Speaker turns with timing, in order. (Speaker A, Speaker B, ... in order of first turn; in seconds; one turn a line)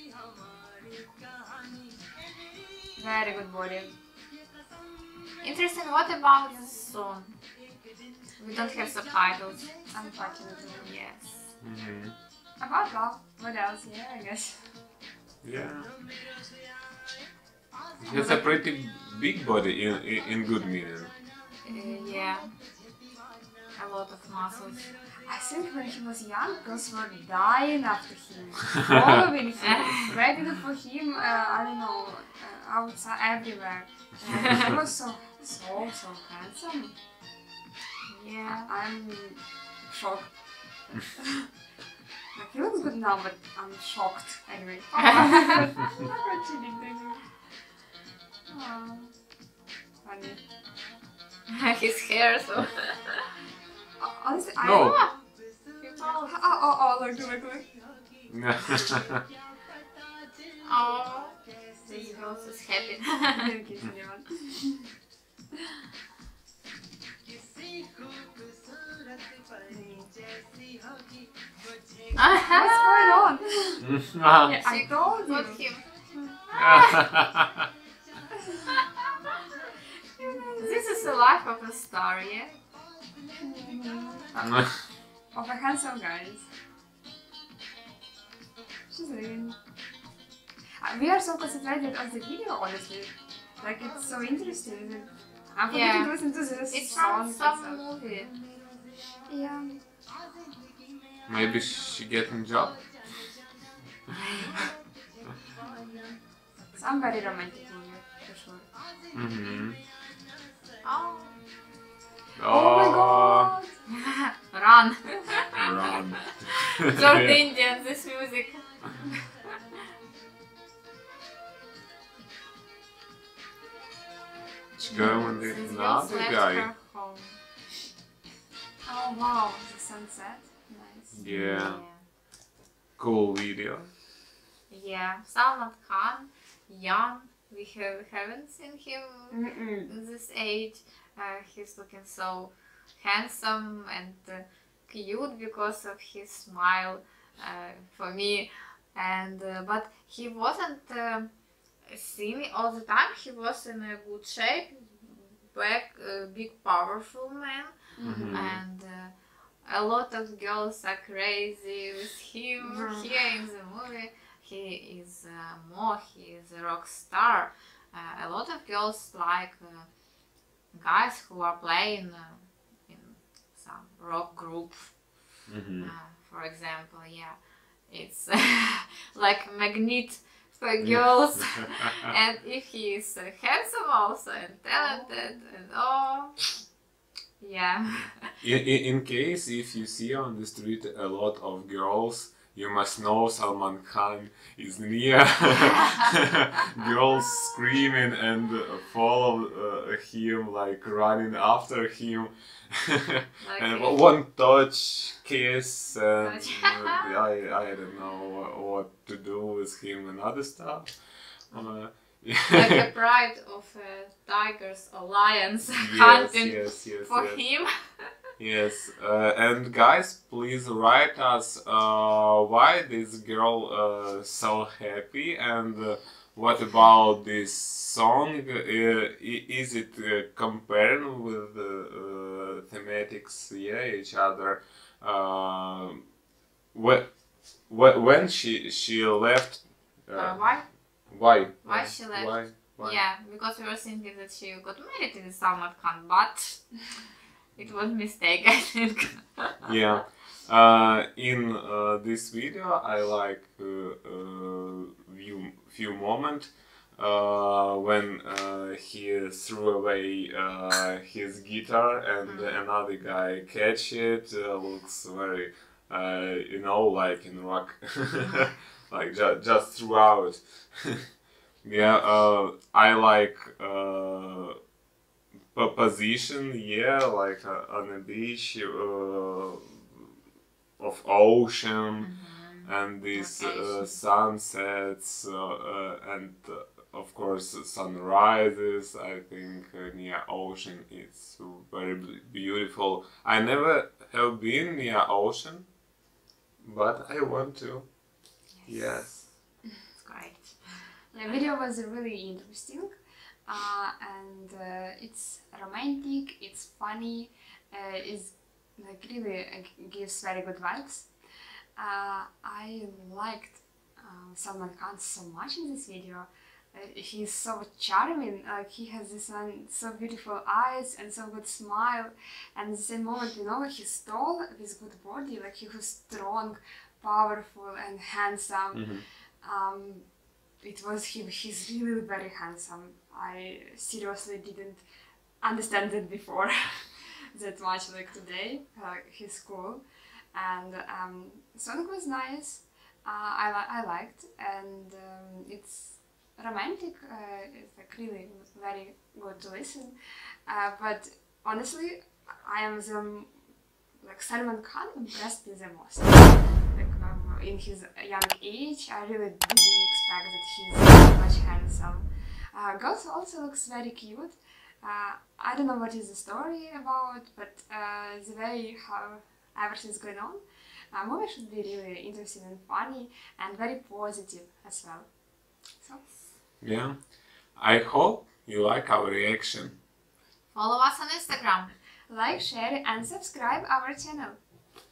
Speaker A: 2.9-3.9
Speaker B: 5.4-7.4
Speaker B: 8.4-9.7
Speaker A: 9.9-10.9
Speaker B: 10.8-11.5
Speaker C: 11.6-12.1
Speaker A: 12.6-14.6
Speaker C: 15.4-15.9
Speaker C: 18.0-21.1
Speaker A: 18.1-18.4
Speaker B: 21.6-22.5
Speaker A: 21.6-22.2
Speaker B: 23.8-24.9
Speaker A: 25.2-36.9
Speaker B: 29.6-30.1
Speaker B: 38.1-38.7
Speaker A: 38.5-40.3
Speaker A: 40.9-41.5
Speaker A: 42.3-47.2
Speaker B: 45.0-45.6
Speaker A: 48.5-49.1
Speaker A: 50.0-50.4
Speaker B: 51.5-53.3
Speaker A: 54.0-55.0
Speaker C: 54.6-55.0
Speaker B: 54.7-55.1
Speaker B: 55.8-56.8
Speaker A: 56.1-57.7
Speaker C: 58.3-59.2
Speaker B: 60.6-61.4
Speaker A: 61.8-62.4
Speaker B: 62.0-63.5
Speaker A: 63.3-64.8
Speaker A: 69.7-70.1
Speaker B: 72.1-73.2
Speaker A: 72.3-73.9
Speaker C: 73.8-74.6
Speaker A: 74.4-75.6
Speaker B: 74.6-75.8
Speaker B: 76.5-77.1
Speaker C: 76.5-77.7
Speaker A: 78.3-78.6
Speaker B: 78.7-79.3
Speaker A: 80.2-80.8
Speaker B: 80.5-82.6
Speaker A: 83.4-84.7
Speaker A: 85.3-86.5
Speaker A: 88.9-89.5
Speaker A: 90.8-97.8
Speaker B: 95.7-96.2
Speaker B: 96.7-98.4
Speaker A: 99.3-99.8
Speaker C: 101.3-102.8
Speaker B: 104.2-104.7
Speaker A: 106.7-108.7
Speaker C: 109.1-109.8
Speaker B: 110.8-111.4
Speaker C: 112.3-113.5
Speaker A: 112.5-113.7
Speaker B: 113.9-119.5
Speaker C: 115.5-117.4
Speaker B: 124.8-127.4
Speaker C: 124.9-126.7
Speaker A: 128.8-131.3
Speaker C: 131.1-131.8
Speaker B: 131.2-132.0
Speaker C: 133.0-133.9
Speaker B: 134.7-151.3
Speaker A: 139.3-139.9
Speaker B: 151.8-157.8
Speaker A: 158.0-158.4
Speaker C: 158.1-158.6
Speaker B: 158.3-159.1
Speaker B: 159.6-169.9
Speaker A: 162.6-163.1
Speaker B: 170.7-174.9
Speaker C: 175.5-175.9
Speaker B: 175.8-177.4
Speaker B: 177.9-186.5
Speaker C: 180.8-181.7
Speaker A: 184.7-185.4
Speaker B: 187.4-188.2
Speaker C: 188.4-211.0
Speaker B: 203.4-204.0
Speaker B: 206.2-207.0
Speaker C: 211.5-212.8
Speaker B: 212.5-218.1
Speaker C: 215.7-217.4
Speaker C: 218.4-236.0
Speaker C: 236.7-237.1
Speaker C: 237.7-240.6
Speaker B: 240.1-240.7
Speaker C: 241.1-243.0
Speaker B: 241.6-246.8
Speaker B: 247.6-249.7
Speaker C: 249.6-271.0
Speaker B: 262.2-262.5
Speaker C: 271.6-274.6
Speaker C: 275.5-280.0
Speaker C: 280.8-282.1
Speaker B: 282.0-284.0
Speaker C: 282.6-295.7
Speaker C: 296.6-297.9
Speaker B: 298.6-299.0
Speaker C: 298.6-299.3
Speaker B: 299.9-300.6
Speaker A: 301.1-302.9
Speaker A: 303.5-311.1
Speaker A: 311.8-328.9
Speaker C: 328.7-329.0
Speaker A: 329.4-330.0
Speaker A: 330.6-334.8
Speaker A: 335.4-349.9
Speaker A: 350.4-353.3
Speaker A: 354.0-370.4
Speaker A: 370.9-375.1
Speaker A: 375.8-376.0
Speaker C: 376.6-377.0
Speaker C: 377.6-379.8
Speaker B: 380.5-381.7
Speaker A: 382.1-384.4